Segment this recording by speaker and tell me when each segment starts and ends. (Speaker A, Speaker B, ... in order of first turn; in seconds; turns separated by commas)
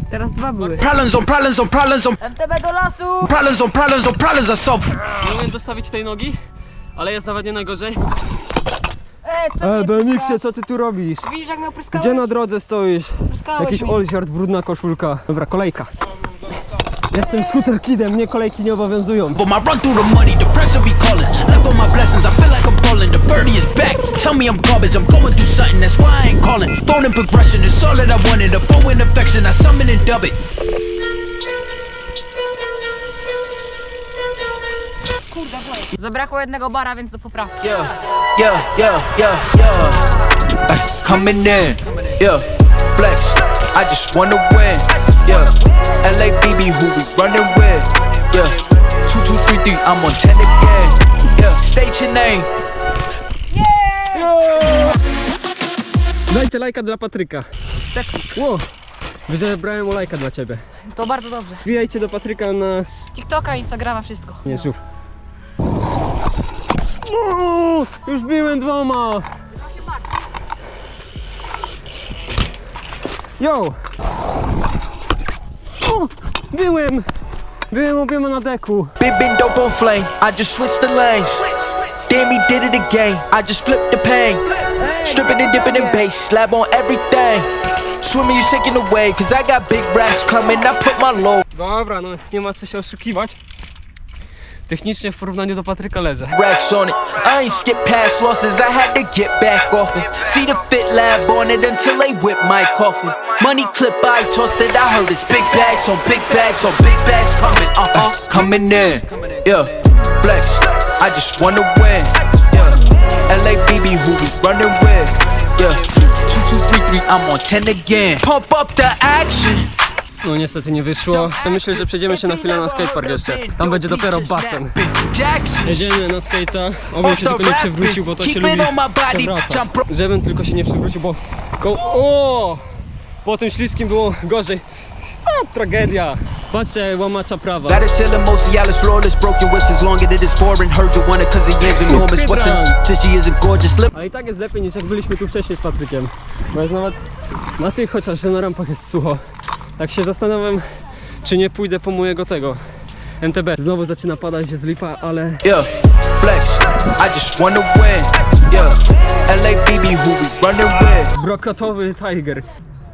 Speaker A: 0.1-0.8, Speaker B: 0.8-2.2, Speaker A: 2.2-3.3, Speaker B: 3.2-5.0, Speaker C: 5.2-6.4, Speaker C: 7.0-8.1, Speaker A: 9.2-10.4, Speaker C: 9.6-11.3, Speaker A: 11.2-12.2, Speaker C: 11.9-15.9, Speaker A: 13.3-14.0, Speaker C: 17.1-19.4, Speaker B: 19.4-30.4, Speaker A: 35.3-37.6, Speaker B: 37.6-40.1, Speaker B: 40.6-52.5, Speaker A: 53.5-54.4, Speaker C: 54.1-55.0, Speaker C: 56.3-57.5, Speaker A: 57.9-58.3, Speaker C: 58.3-58.7, Speaker C: 59.3-60.6, Speaker A: 60.9-61.7, Speaker C: 61.6-62.9, Speaker A: 63.1-64.7, Speaker C: 64.5-64.8, Speaker C: 67.0-69.3, Speaker A: 69.6-70.0, Speaker C: 73.4-73.8, Speaker C: 75.8-77.1, Speaker C: 77.7-78.9, Speaker B: 79.0-91.4, Speaker A: 84.8-86.1, Speaker C: 91.5-93.4, Speaker C: 94.7-96.4, Speaker B: 96.3-119.7, Speaker C: 120.2-124.8, Speaker B: 121.1-125.9, Speaker C: 125.7-132.7, Speaker B: 127.0-129.8, Speaker C: 133.2-137.8, Speaker B: 137.7-143.9, Speaker C: 141.8-142.8, Speaker C: 143.9-147.0, Speaker C: 147.6-149.2, Speaker C: 149.8-150.7, Speaker C: 151.2-152.6, Speaker C: 153.2-155.4, Speaker B: 155.4-161.1, Speaker C: 161.1-162.5